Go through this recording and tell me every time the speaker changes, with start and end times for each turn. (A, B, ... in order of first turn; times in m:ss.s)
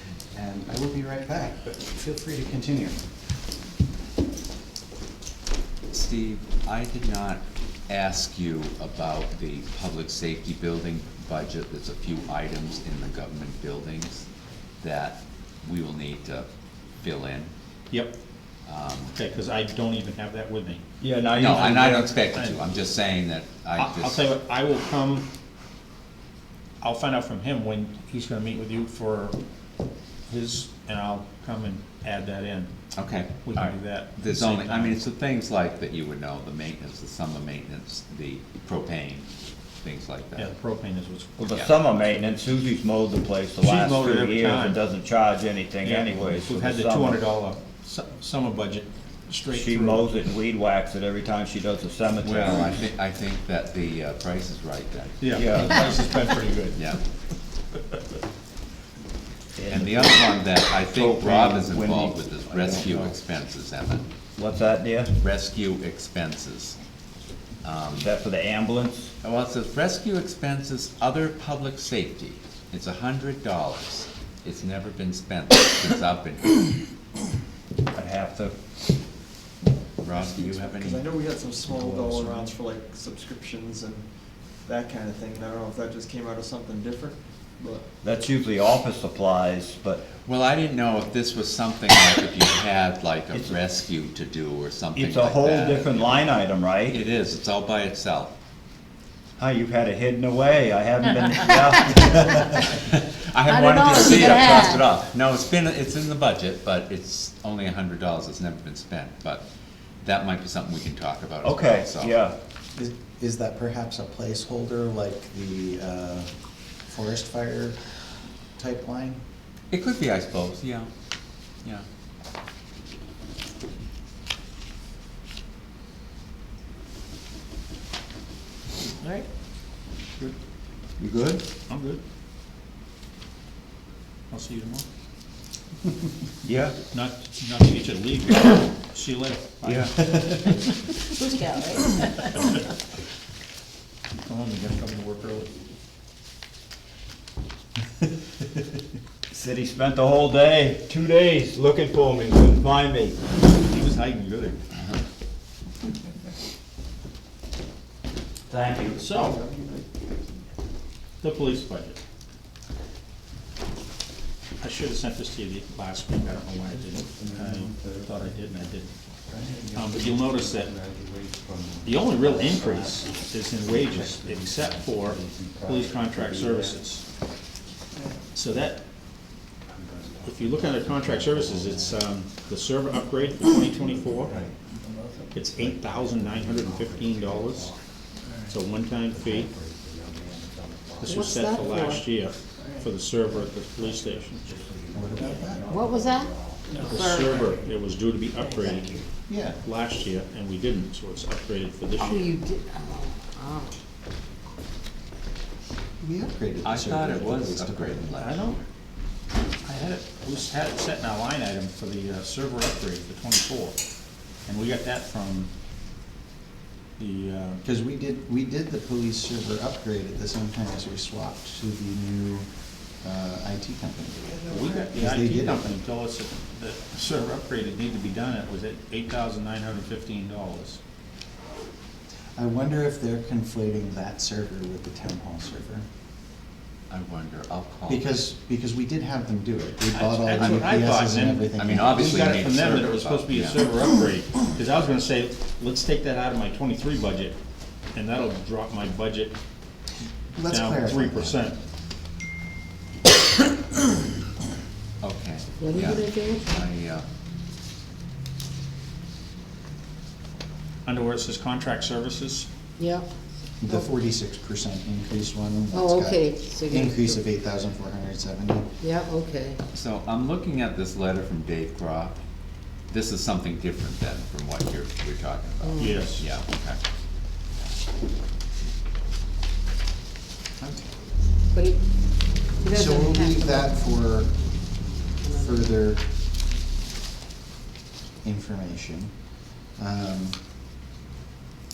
0:00.3-0:03.1 A
0:05.9-0:14.3 B
0:14.8-0:16.5 B
0:17.0-0:17.5 B
0:17.9-0:18.2 C
0:18.7-0:19.2 B
0:19.1-0:20.8 C
0:21.0-0:22.1 D
0:21.4-0:24.2 B
0:21.5-0:22.6 C
0:23.8-0:25.3 C
0:26.8-0:29.4 C
0:30.3-0:32.7 C
0:32.9-0:39.3 B
0:33.4-0:35.0 C
0:39.8-0:40.5 B
0:40.4-0:42.0 C
0:41.4-0:47.2 D
0:43.6-0:44.8 C
0:45.8-0:50.2 C
0:49.5-0:52.8 D
0:52.2-0:55.9 B
0:55.2-0:57.0 C
0:55.3-0:55.8 D
0:59.6-1:03.2 D
0:59.7-1:04.1 B
1:04.4-1:05.1 D
1:05.2-1:06.8 B
1:07.6-1:08.1 B
1:07.9-1:09.1 D
1:09.2-1:16.8 B
1:17.9-1:18.6 D
1:20.0-1:21.1 B
1:20.1-1:27.8 E
1:21.7-1:22.5 A
1:28.0-1:30.0 D
1:30.1-1:36.2 B
1:33.3-1:33.6 D
1:34.9-1:37.0 D
1:36.9-1:38.4 B
1:39.4-1:42.6 D
1:41.5-1:42.3 F
1:42.6-1:49.5 B
1:43.4-1:44.9 F
1:50.0-1:52.2 B
1:51.4-1:52.4 D
1:52.8-1:56.3 A
1:56.9-1:57.8 A
1:58.6-1:59.2 A
1:59.7-2:00.9 B
2:11.0-2:11.4 D
2:11.7-2:12.0 C
2:14.3-2:14.8 C
2:16.4-2:16.8 D
2:16.9-2:20.5 C
2:19.6-2:20.4 D
2:21.1-2:22.3 F
2:24.2-2:25.5 C
2:29.3-2:33.2 D
2:33.5-2:34.6 C
2:38.5-2:39.1 D
2:39.0-2:39.4 C
2:39.1-2:39.9 E
2:41.2-2:42.0 C
2:44.6-2:48.9 C
2:49.7-2:50.7 C
2:50.2-2:50.6 D
2:51.5-2:53.0 D
2:51.8-2:57.0 C
2:53.9-2:56.7 D
2:58.3-2:58.8 C
3:00.2-3:04.4 C
3:04.2-3:04.5 D
3:05.3-3:07.8 C
3:06.5-3:07.6 D
3:08.5-3:09.5 C
3:09.2-3:11.2 D
3:11.0-3:14.5 C
3:11.0-3:12.0 F
3:12.6-3:12.9 F
3:13.5-3:16.9 D
3:14.9-3:15.7 A
3:15.7-3:17.4 F
3:16.7-3:17.0 E
3:16.8-3:19.1 C
3:18.6-3:19.0 D
3:19.3-3:19.6 A
3:19.6-3:22.4 C
3:22.0-3:23.8 F
3:26.0-3:28.3 A
3:26.6-3:28.6 B
3:28.2-3:28.6 C
3:29.6-3:33.8 C
3:34.5-3:35.5 C
3:37.0-3:37.6 C
3:37.6-3:45.7 A
3:44.2-3:44.9 E
3:44.5-3:50.8 C
3:52.4-3:55.9 A
3:56.9-3:58.2 B
3:57.9-4:02.4 A
3:59.9-4:07.4 C
4:00.3-4:01.0 B
4:01.5-4:03.7 B
4:07.9-4:09.4 C
4:10.4-4:11.4 A
4:10.5-4:11.6 C
4:15.0-4:17.1 B
4:15.6-4:16.6 F
4:20.8-4:22.5 C
4:22.8-4:23.1 F
4:23.6-4:28.7 A
4:25.7-4:27.2 F
4:28.8-4:29.6 F
4:29.7-4:32.2 B
4:32.9-4:36.8 B
4:35.6-4:36.1 F
4:35.8-4:36.2 C
4:40.6-4:40.9 A
4:41.5-4:43.7 F
4:42.7-4:46.1 A
4:45.2-4:45.6 F
4:48.2-4:50.4 A